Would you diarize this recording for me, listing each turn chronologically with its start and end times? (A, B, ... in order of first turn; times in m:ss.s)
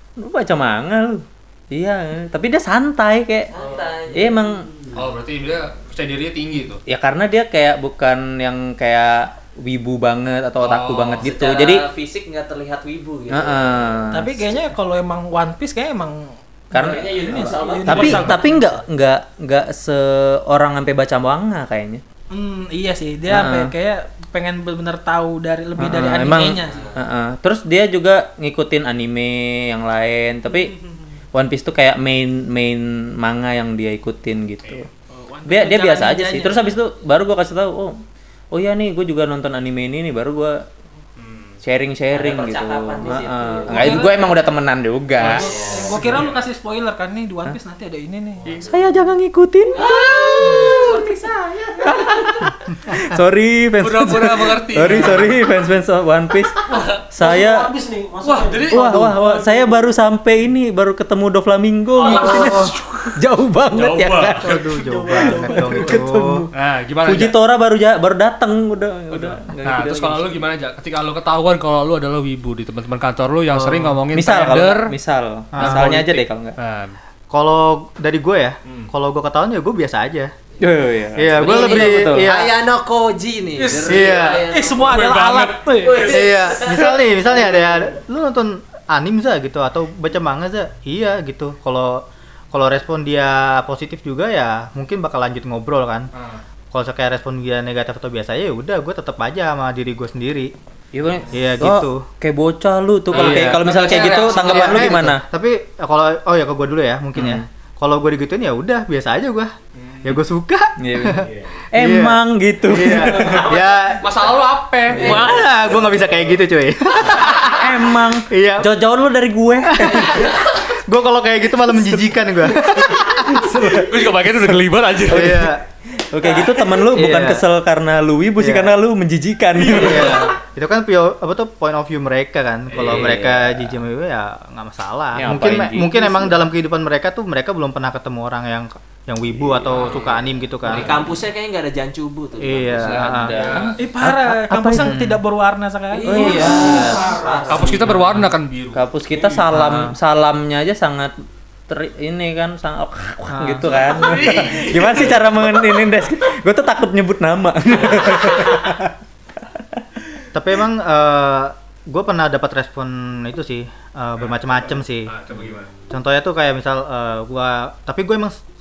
0:00.2-0:03.5 A
0:03.5-0:04.4 B
0:04.1-0:04.7 A
0:04.9-0:06.8 C
0:06.9-0:11.9 A
0:10.6-0:11.3 C
0:11.2-0:14.1 B
0:13.3-0:14.4 A
0:14.1-0:18.5 D
0:16.7-0:17.1 A
0:16.7-0:18.4 B
0:17.9-0:22.0 A
0:22.3-0:26.8 D
0:23.3-0:23.7 A
0:25.8-0:30.7 A
0:26.7-0:27.0 B
0:30.5-0:31.1 D
0:31.3-0:34.9 A
0:35.1-0:36.7 D
0:35.5-0:38.0 A
0:38.5-0:40.6 A
0:41.2-0:41.6 C
0:41.6-0:45.5 A
0:42.1-0:44.3 B
0:43.7-0:44.1 D
0:45.2-0:46.3 C
0:45.3-0:48.4 D
0:45.3-0:45.9 B
0:46.0-0:46.3 E
0:48.4-0:48.8 C
0:48.6-0:50.9 A
0:49.7-0:51.1 B
0:49.8-0:51.9 D
0:51.8-0:56.6 A
0:51.9-0:52.3 B
0:53.8-0:55.4 C
0:56.6-0:57.1 C
0:57.1-0:57.7 A
0:57.2-0:59.0 E
0:58.2-0:59.7 C
0:58.7-1:04.6 A
0:58.9-0:59.2 F
1:02.0-1:03.2 C
1:02.0-1:02.7 F
1:02.1-1:02.5 D
1:03.7-1:04.8 C
1:04.4-1:06.4 F
1:04.9-1:06.0 D
1:05.2-1:06.5 A
1:06.5-1:07.4 C
1:07.0-1:10.5 A
1:09.1-1:14.9 C
1:13.5-1:14.0 F
1:14.1-1:16.6 A
1:15.5-1:16.0 F
1:15.6-1:17.0 C
1:17.3-1:20.3 F
1:18.6-1:18.9 C
1:20.6-1:22.4 A
1:21.2-1:22.5 F
1:21.4-1:25.1 B
1:23.6-1:26.1 D
1:23.8-1:24.5 F
1:24.9-1:26.2 C
1:25.8-1:27.0 B
1:26.0-1:36.1 F
1:36.1-1:36.4 C
1:36.7-1:40.5 F
1:40.9-1:45.2 A
1:41.3-1:42.0 F
1:43.1-1:45.1 C
1:43.1-1:49.5 F
1:47.2-1:47.5 A
1:49.8-1:50.2 C
1:50.0-1:54.3 F
1:50.8-1:53.6 A
1:51.2-1:51.6 E
1:53.2-1:53.6 B
1:54.0-1:55.3 C
1:54.9-1:58.7 F
1:55.0-1:55.4 A
1:55.1-1:55.4 B
1:57.1-2:00.3 A
1:59.7-2:04.3 F
2:01.7-2:04.4 A
2:03.7-2:05.5 C
2:05.0-2:05.6 F
2:05.1-2:10.4 A
2:06.4-2:07.4 F
2:08.4-2:08.8 F
2:09.6-2:21.1 F
2:09.8-2:10.1 C
2:12.7-2:13.1 C
2:12.7-2:13.8 A
2:15.2-2:16.4 A
2:19.7-2:20.1 C
2:19.8-2:23.2 B
2:22.4-2:23.6 F
2:22.8-2:25.0 A
2:23.1-2:23.8 C
2:23.8-2:26.4 D
2:24.7-2:25.2 F
2:26.0-2:27.9 B
2:26.0-2:27.8 E
2:26.0-2:27.0 A
2:27.5-2:29.3 C
2:27.9-2:28.2 A
2:27.9-2:28.2 F
2:28.7-2:31.1 A
2:29.5-2:29.9 F
2:31.7-2:39.0 A
2:33.3-2:33.8 F
2:33.7-2:35.6 C
2:39.5-2:39.8 A
2:40.3-2:45.2 F
2:44.2-2:45.7 C
2:45.3-2:45.7 E
2:45.9-2:48.4 F